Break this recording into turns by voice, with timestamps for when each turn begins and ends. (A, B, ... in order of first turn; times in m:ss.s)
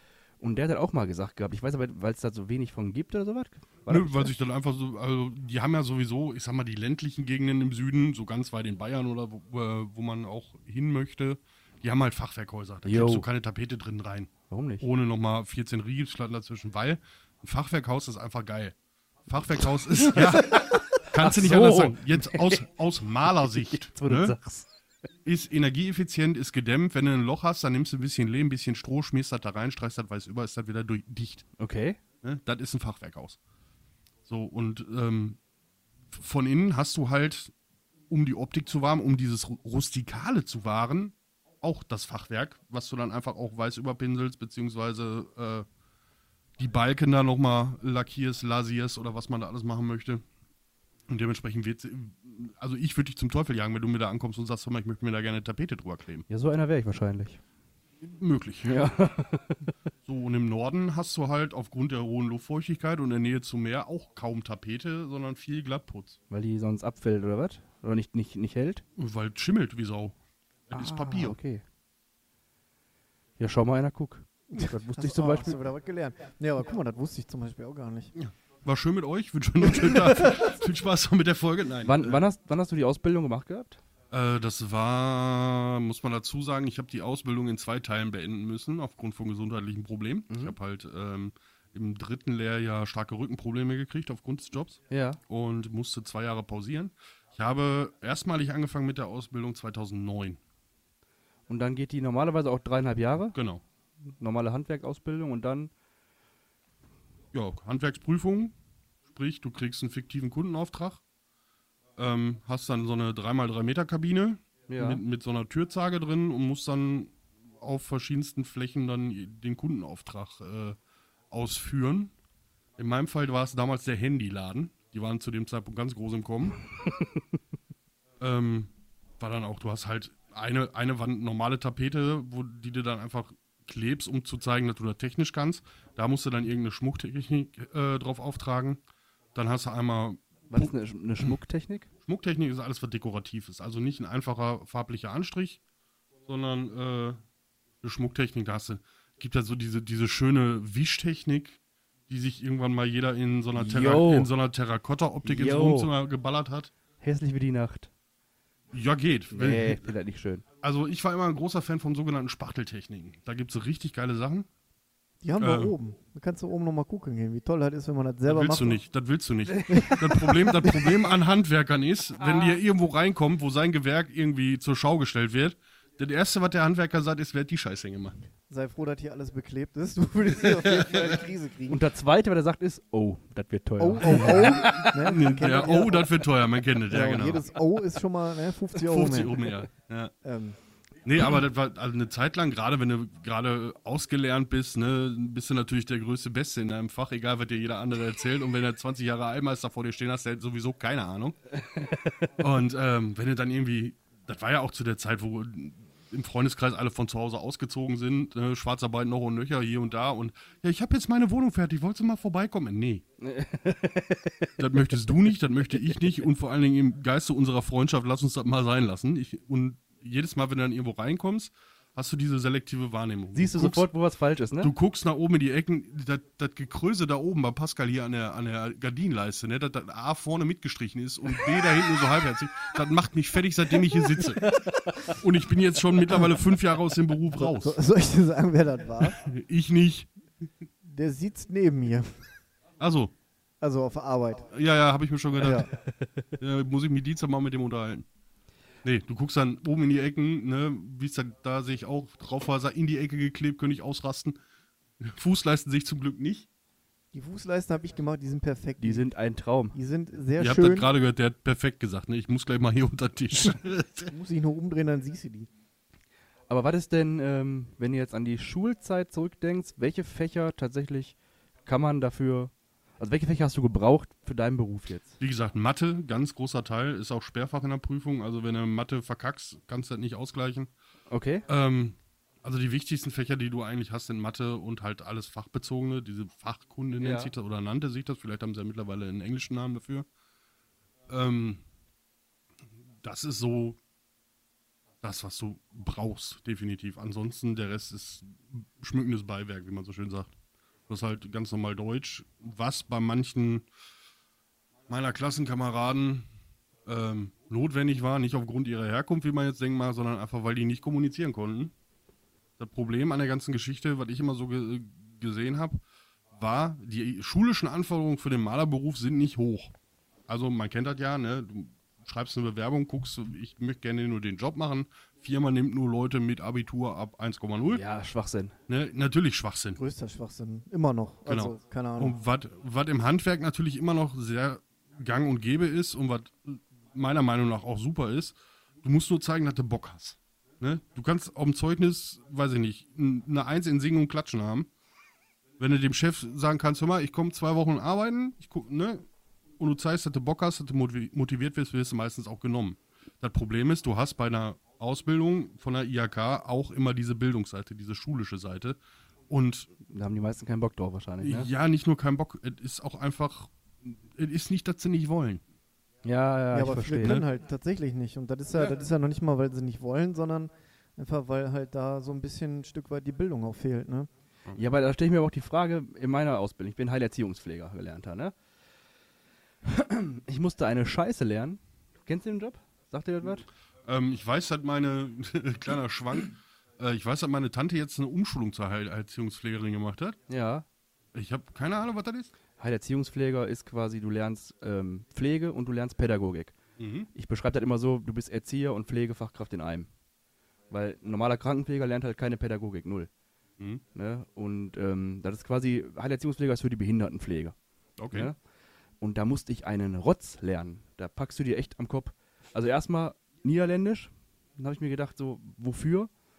0:00.4-0:04.3 A
0:03.9-0:18.8 B
0:12.8-0:13.2 A
0:14.5-0:14.8 A
0:19.3-0:24.4 B
0:19.9-0:22.6 A
0:23.6-0:24.7 A
0:25.2-0:31.4 B
0:31.6-0:32.0 A
0:32.2-0:33.4 B
0:34.2-0:35.4 B
0:36.1-0:37.5 B
0:38.1-0:45.6 B
0:46.6-0:50.2 B
0:51.1-0:56.2 B
0:56.3-0:57.4 A
0:58.0-0:58.8 B
0:58.6-0:59.7 A
1:00.0-1:06.2 B
1:06.3-1:08.8 A
1:09.0-1:10.2 B
1:10.7-1:11.4 B
1:10.7-1:11.6 A
1:13.4-1:15.6 A
1:14.5-1:18.1 C
1:18.1-1:22.2 B
1:21.8-1:23.8 A
1:24.1-1:40.4 B
1:30.3-1:30.6 A
1:34.9-1:35.2 A
1:41.5-1:43.4 A
1:43.3-1:43.6 B
1:44.2-1:45.7 A
1:47.3-1:48.5 B
1:49.1-1:51.0 B
1:52.0-2:00.8 B
1:54.7-1:55.0 A
2:01.3-2:02.1 B
2:02.8-2:06.6 B
2:08.2-2:18.8 B
2:19.3-2:21.3 B
2:20.5-2:21.9 A
2:22.0-2:25.6 B
2:26.2-2:27.2 B
2:27.8-2:36.7 B
2:33.5-2:34.3 A
2:35.2-2:35.9 A
2:37.0-2:37.9 A
2:38.7-2:39.8 B
2:39.3-2:40.4 A
2:40.6-2:44.5 B
2:45.2-2:48.8 C
2:45.4-2:45.8 B
2:48.2-2:58.2 B
2:49.5-2:50.7 A
2:49.7-2:50.0 C
2:52.2-2:52.6 A
2:58.5-3:01.8 C
3:00.4-3:01.2 B
3:01.7-3:05.0 A
3:03.8-3:06.2 C
3:04.0-3:07.5 B
3:06.9-3:09.5 C
3:08.8-3:10.1 B
3:10.2-3:10.6 C
3:11.0-3:21.4 B
3:21.8-3:22.1 A
3:22.4-3:33.0 B
3:33.2-3:34.6 A
3:34.6-3:43.8 B
3:43.3-3:44.7 A
3:44.6-3:57.8 B
3:57.3-3:59.2 C
3:59.2-4:00.1 B
4:00.8-4:02.2 C
4:02.8-4:03.1 B
4:03.6-4:04.5 C
4:04.5-4:05.7 B
4:05.4-4:05.7 C
4:06.4-4:08.0 B
4:08.8-4:14.4 B
4:15.0-4:16.5 B
4:17.1-4:19.1 C
4:18.8-4:19.8 A
4:19.7-4:20.9 C
4:20.4-4:24.1 B
4:24.1-4:25.5 C
4:26.5-4:31.1 A
4:31.6-4:35.1 A
4:35.2-4:40.7 B
4:41.1-4:41.4 A
4:41.5-4:50.1 B
4:47.0-4:47.3 A
4:51.1-4:51.6 B
4:53.0-4:53.8 B
4:55.0-5:00.3 B
5:00.9-5:03.6 B
5:04.9-5:06.2 B
5:06.8-5:11.7 B
5:12.6-5:15.8 B
5:16.4-5:19.7 B
5:20.3-5:27.8 B
5:27.6-5:28.6 A
5:28.7-5:29.8 B
5:29.8-5:32.2 C
5:31.3-5:44.7 B
5:45.6-5:49.0 B
5:49.6-5:59.7 B
5:59.8-6:01.5 A
6:01.2-6:05.4 B
6:06.0-6:07.2 A
6:06.5-6:14.1 C
6:14.5-6:18.3 A
6:19.6-6:23.5 A
6:23.8-6:30.2 B
6:30.3-6:30.6 A
6:31.1-6:32.3 B
6:32.6-6:36.6 A
6:36.8-6:37.1 B
6:37.1-6:39.9 A
6:40.7-6:43.1 A
6:43.9-6:47.5 A
6:48.0-6:48.3 B
6:48.1-6:48.4 A
6:49.0-6:56.1 A